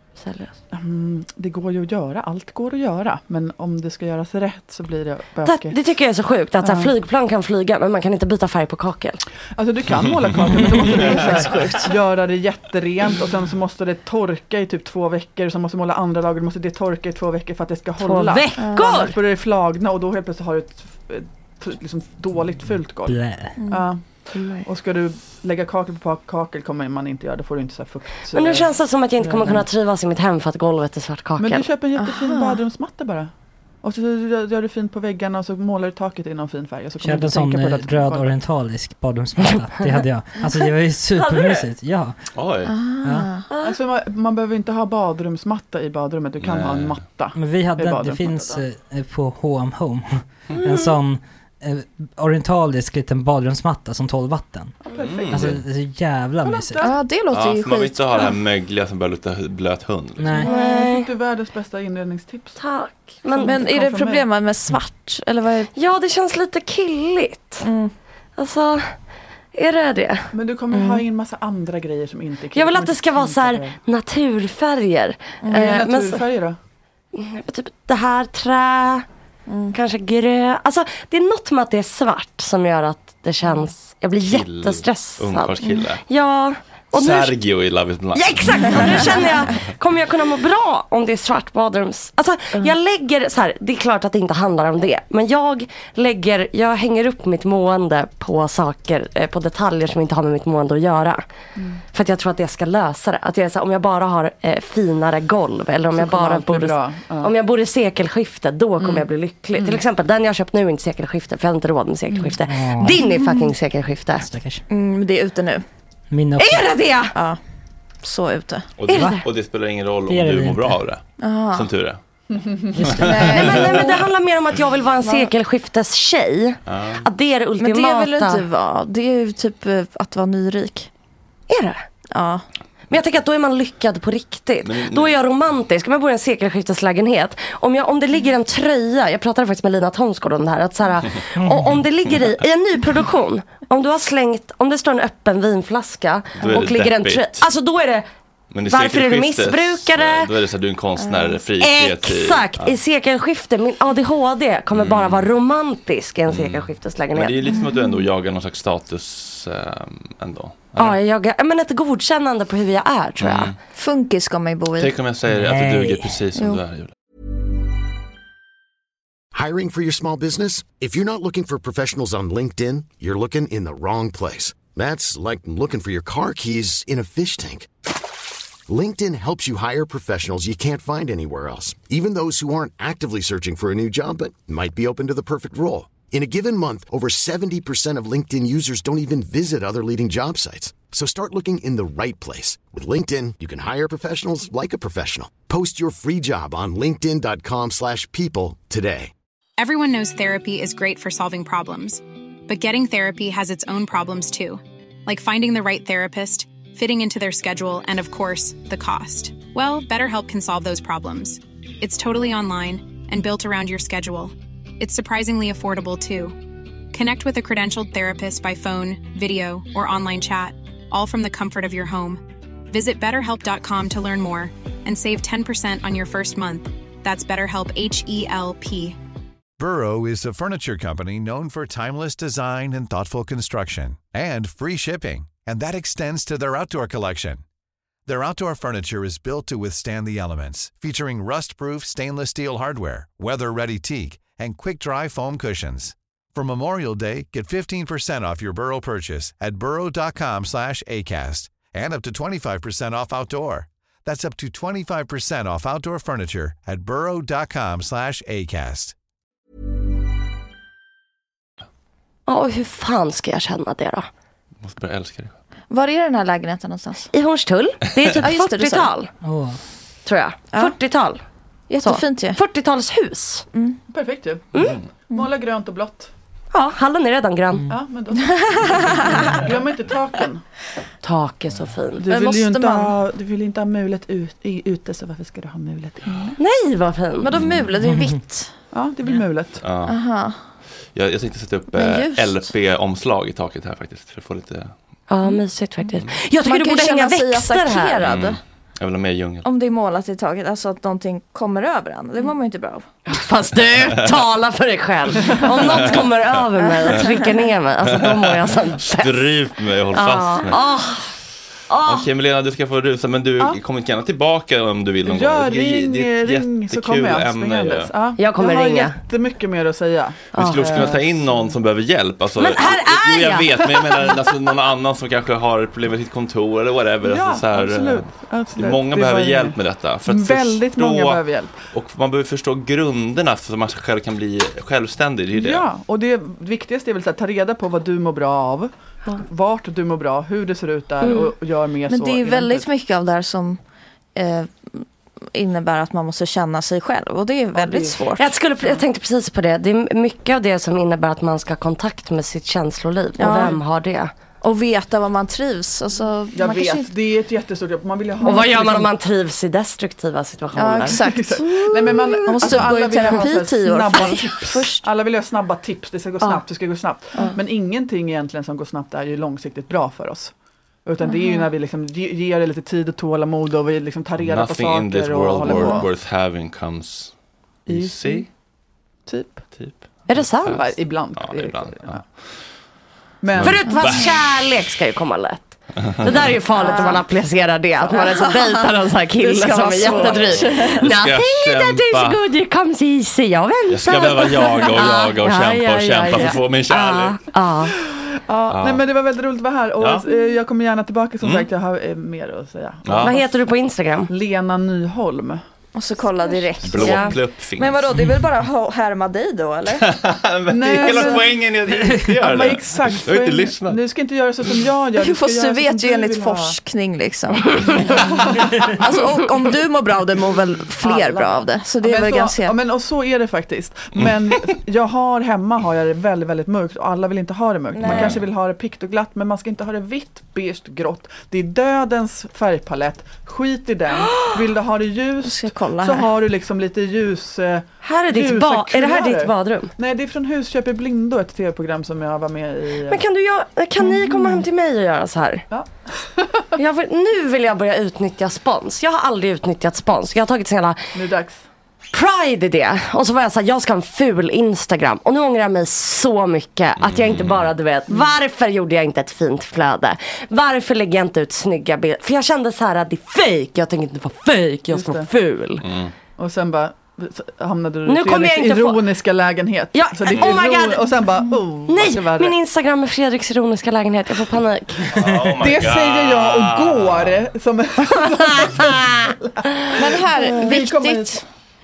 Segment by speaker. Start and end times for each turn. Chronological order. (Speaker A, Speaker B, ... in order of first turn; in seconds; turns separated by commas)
Speaker A: 0.2-0.5, Speaker B: 0.7-5.8, Speaker A: 5.5-9.2, Speaker B: 6.6-6.9, Speaker B: 9.6-24.1, Speaker A: 18.0-19.2, Speaker C: 18.6-19.0, Speaker D: 23.1-23.6, Speaker C: 23.6-23.9, Speaker A: 24.4-24.7, Speaker B: 24.6-28.7, Speaker A: 28.3-31.7, Speaker B: 29.3-29.6, Speaker B: 31.4-33.3, Speaker C: 32.0-32.6, Speaker B: 33.8-38.4, Speaker D: 37.0-42.2, Speaker A: 41.2-41.7, Speaker E: 42.4-42.7, Speaker C: 42.7-43.5, Speaker D: 43.0-43.3, Speaker A: 43.5-43.8, Speaker B: 43.6-48.6, Speaker E: 46.4-47.0, Speaker D: 47.4-54.8, Speaker B: 54.8-55.6, Speaker E: 55.0-55.6, Speaker D: 55.3-56.9, Speaker B: 56.4-57.0, Speaker C: 56.8-58.3, Speaker E: 57.3-60.4, Speaker D: 60.2-60.5, Speaker B: 60.4-62.6, Speaker A: 60.4-61.1, Speaker A: 62.6-63.7, Speaker B: 63.3-64.3, Speaker C: 63.4-65.7, Speaker A: 65.8-67.7, Speaker C: 67.6-67.9, Speaker A: 68.4-68.9, Speaker A: 69.5-70.3, Speaker B: 70.3-73.8, Speaker C: 70.7-71.0, Speaker A: 72.5-76.2, Speaker C: 75.5-75.7, Speaker B: 75.5-76.6, Speaker A: 77.1-79.0, Speaker C: 79.5-79.8, Speaker A: 79.7-87.4, Speaker E: 84.2-86.0, Speaker E: 86.9-89.5, Speaker A: 88.1-101.2, Speaker A: 101.9-114.3, Speaker B: 105.9-107.3, Speaker B: 108.8-109.8, Speaker D: 112.5-113.0, Speaker D: 114.2-114.6, Speaker C: 114.7-115.7, Speaker D: 116.1-116.7, Speaker A: 116.4-117.2, Speaker C: 118.0-118.7, Speaker E: 118.8-122.0, Speaker A: 118.9-119.3, Speaker D: 118.9-119.2, Speaker D: 120.1-120.8, Speaker C: 121.2-121.7, Speaker B: 122.3-122.8, Speaker D: 122.8-123.2, Speaker E: 122.8-123.7, Speaker C: 122.9-124.1, Speaker A: 123.2-128.5, Speaker C: 125.0-125.3, Speaker E: 126.7-127.0, Speaker C: 127.6-130.9, Speaker A: 131.5-131.8, Speaker C: 132.1-132.4, Speaker A: 132.9-148.1, Speaker E: 134.7-135.1, Speaker D: 141.4-141.8, Speaker E: 146.4-147.5, Speaker E: 148.5-152.8, Speaker A: 148.7-150.3, Speaker C: 151.1-151.3, Speaker A: 151.6-157.4, Speaker E: 154.7-155.3, Speaker E: 156.3-161.0, Speaker C: 157.5-158.0, Speaker A: 160.8-163.6, Speaker E: 163.2-163.6, Speaker C: 163.8-164.9, Speaker E: 164.8-166.9, Speaker D: 165.3-166.1, Speaker F: 169.3-177.7, Speaker F: 178.7-199.1, Speaker G: 199.6-216.4, Speaker G: 216.9-229.0, Speaker H: 229.6-237.4, Speaker H: 238.1-258.9, Speaker A: 262.3-264.1, Speaker E: 264.6-265.3, Speaker C: 265.7-267.1, Speaker A: 267.1-269.1, Speaker C: 268.2-268.9, Speaker D: 269.2-269.6, Speaker A: 270.1-271.2, Speaker C: 271.7-272.4, Speaker A: 271.8-273.5, Speaker C: 273.5-273.8, Speaker B: 273.9-274.5, Speaker A: 274.6-274.8, Speaker B: 275.1-276.1, Speaker A: 276.5-277.7, Speaker B: 277.7-280.4, Speaker C: 278.3-279.0, Speaker A: 281.0-282.1, Speaker B: 282.0-286.4, Speaker C: 282.1-282.9, Speaker A: 286.4-287.4, Speaker C: 287.2-288.5, Speaker D: 287.8-288.2, Speaker B: 288.7-289.6, Speaker E: 289.6-290.0, Speaker C: 289.9-290.4, Speaker E: 290.9-294.7, Speaker C: 291.7-292.4, Speaker A: 295.1-298.1, Speaker C: 296.4-298.4, Speaker E: 298.0-299.5, Speaker C: 299.4-302.9, Speaker A: 303.1-309.3, Speaker E: 305.5-306.1, Speaker E: 307.9-310.6, Speaker A: 309.9-311.1, Speaker A: 311.7-312.1, Speaker E: 311.9-317.9, Speaker B: 315.1-321.5, Speaker A: 318.2-319.0, Speaker A: 320.3-320.9, Speaker E: 320.4-335.6, Speaker A: 322.4-324.1, Speaker B: 327.0-331.5, Speaker B: 335.3-342.7, Speaker A: 341.0-341.3, Speaker C: 341.9-343.6, Speaker C: 344.1-348.3, Speaker B: 347.6-347.9, Speaker A: 348.1-354.1, Speaker C: 353.2-353.6, Speaker C: 354.4-356.9, Speaker B: 356.3-358.9, Speaker A: 358.2-363.3, Speaker C: 360.6-364.8, Speaker B: 360.9-370.3, Speaker B: 370.9-375.9, Speaker C: 371.0-371.4, Speaker E: 374.2-377.1, Speaker E: 377.7-378.3, Speaker B: 377.7-378.3, Speaker B: 379.1-379.5, Speaker A: 380.1-380.7, Speaker E: 380.3-380.6, Speaker B: 380.5-382.0, Speaker E: 381.1-382.0, Speaker B: 383.2-384.0, Speaker E: 383.4-384.1, Speaker A: 383.4-397.8, Speaker C: 383.7-384.0, Speaker E: 385.8-386.4, Speaker C: 386.6-387.0, Speaker C: 387.9-390.9, Speaker E: 390.1-392.2, Speaker E: 393.7-397.3, Speaker B: 397.7-403.4, Speaker E: 398.5-398.8, Speaker E: 399.8-400.1, Speaker E: 401.2-401.5, Speaker E: 402.9-403.2, Speaker A: 402.9-404.1, Speaker B: 404.1-405.4, Speaker C: 405.8-409.9, Speaker E: 406.6-407.8, Speaker A: 406.8-407.2, Speaker E: 409.8-413.8, Speaker B: 410.5-411.4, Speaker C: 410.8-411.2, Speaker B: 412.1-416.6, Speaker C: 415.0-422.6, Speaker B: 417.9-418.7, Speaker B: 420.8-443.0, Speaker E: 424.0-424.5, Speaker C: 427.8-428.2, Speaker E: 427.8-428.2, Speaker A: 433.9-434.4, Speaker C: 435.2-436.1, Speaker A: 437.8-439.7, Speaker A: 442.9-445.4, Speaker B: 445.5-446.4, Speaker A: 446.6-450.8, Speaker B: 450.9-451.4, Speaker A: 451.9-465.6, Speaker E: 456.8-457.5, Speaker B: 464.7-465.1, Speaker E: 465.6-465.9, Speaker B: 466.2-472.3, Speaker A: 467.9-468.8, Speaker A: 469.7-475.0, Speaker E: 474.9-477.3, Speaker B: 475.4-481.2, Speaker A: 478.0-479.1, Speaker C: 479.8-481.2